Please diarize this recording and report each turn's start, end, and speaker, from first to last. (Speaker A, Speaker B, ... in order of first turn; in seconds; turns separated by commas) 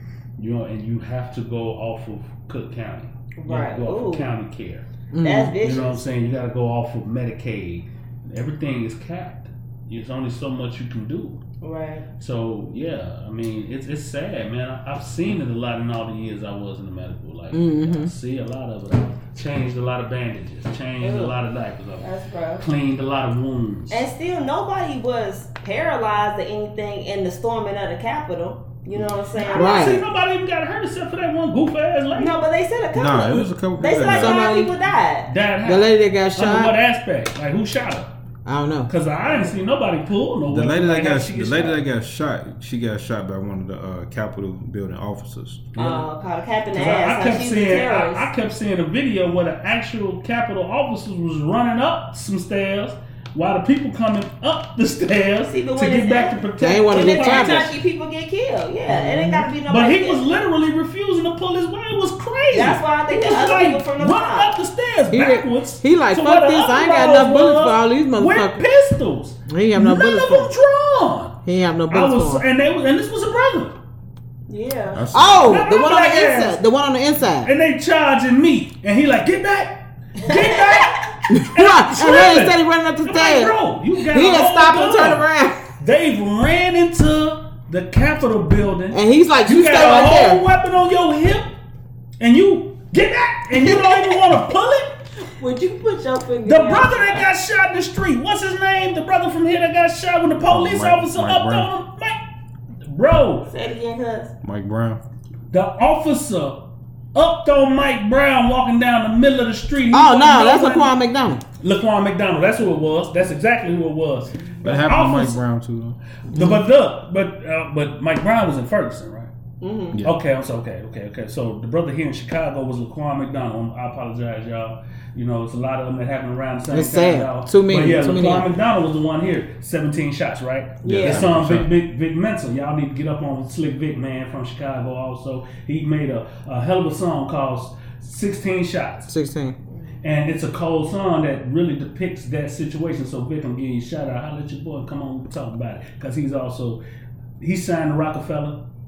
Speaker A: 0.4-4.9, Speaker B: 3.4-4.3, Speaker C: 5.1-5.5, Speaker B: 5.2-6.0, Speaker A: 5.6-11.4, Speaker B: 11.6-12.1, Speaker A: 12.2-22.1, Speaker C: 17.5-18.1, Speaker B: 21.0-21.4, Speaker B: 22.0-22.6, Speaker A: 22.6-24.1, Speaker B: 23.9-30.0, Speaker A: 29.3-32.4, Speaker C: 29.5-30.0, Speaker B: 32.1-35.3, Speaker D: 32.9-34.5, Speaker C: 34.1-34.7, Speaker A: 35.2-38.1, Speaker C: 35.6-36.7, Speaker C: 38.4-38.9, Speaker A: 38.9-41.8, Speaker B: 39.2-39.5, Speaker D: 40.5-45.6, Speaker A: 45.7-46.1, Speaker B: 45.8-48.3, Speaker A: 46.7-57.7, Speaker B: 55.5-60.2, Speaker C: 56.6-57.7, Speaker C: 58.9-59.5, Speaker A: 59.6-73.8, Speaker B: 62.5-64.5, Speaker C: 65.1-68.6, Speaker C: 69.5-70.5, Speaker C: 71.4-72.4, Speaker B: 74.5-75.0, Speaker D: 74.9-75.6, Speaker C: 75.1-77.5, Speaker A: 75.3-76.6, Speaker A: 77.4-85.2, Speaker B: 80.2-81.0, Speaker C: 81.3-85.7, Speaker A: 85.8-91.5, Speaker C: 88.9-90.4, Speaker A: 92.2-95.0, Speaker B: 93.5-94.2, Speaker B: 95.2-97.2, Speaker A: 96.4-102.2, Speaker D: 100.5-101.7, Speaker A: 102.8-103.5, Speaker B: 103.5-104.3, Speaker D: 104.4-105.0, Speaker A: 105.5-110.9, Speaker C: 109.9-111.4, Speaker A: 111.6-115.4, Speaker D: 114.6-116.0, Speaker A: 116.3-119.3, Speaker C: 116.3-116.6, Speaker B: 119.6-120.0, Speaker A: 120.0-139.1, Speaker C: 126.7-128.4, Speaker B: 130.8-131.3, Speaker D: 130.8-131.7, Speaker C: 139.1-139.6, Speaker A: 140.0-146.8, Speaker A: 147.4-148.6